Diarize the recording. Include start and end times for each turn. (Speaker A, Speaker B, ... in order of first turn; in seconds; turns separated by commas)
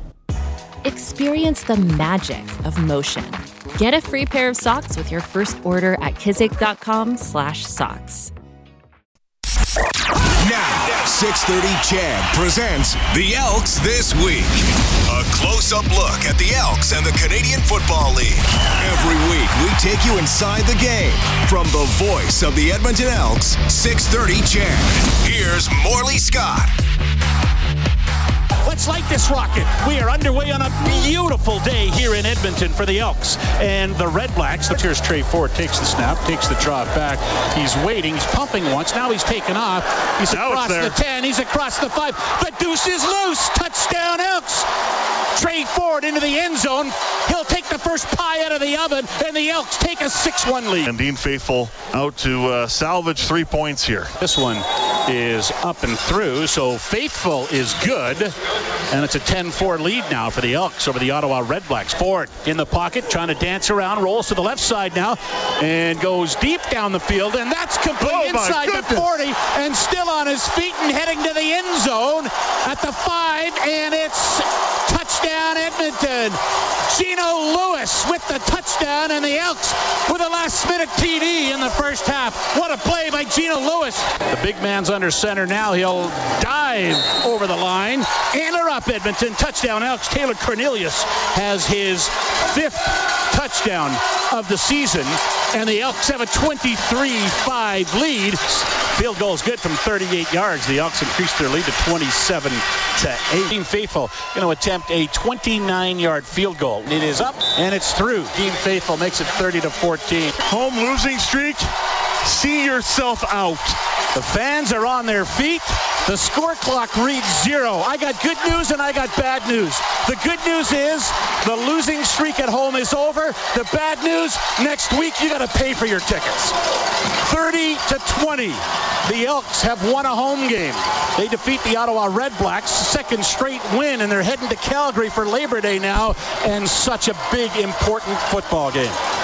Speaker A: 0.8-8.3, Speaker B: 10.4-26.7, Speaker C: 28.6-44.7, Speaker D: 40.2-41.0, Speaker C: 45.3-50.9, Speaker D: 50.8-54.1, Speaker C: 54.2-58.3, Speaker C: 58.9-110.4, Speaker D: 68.0-69.1, Speaker D: 110.4-113.8, Speaker C: 114.1-139.0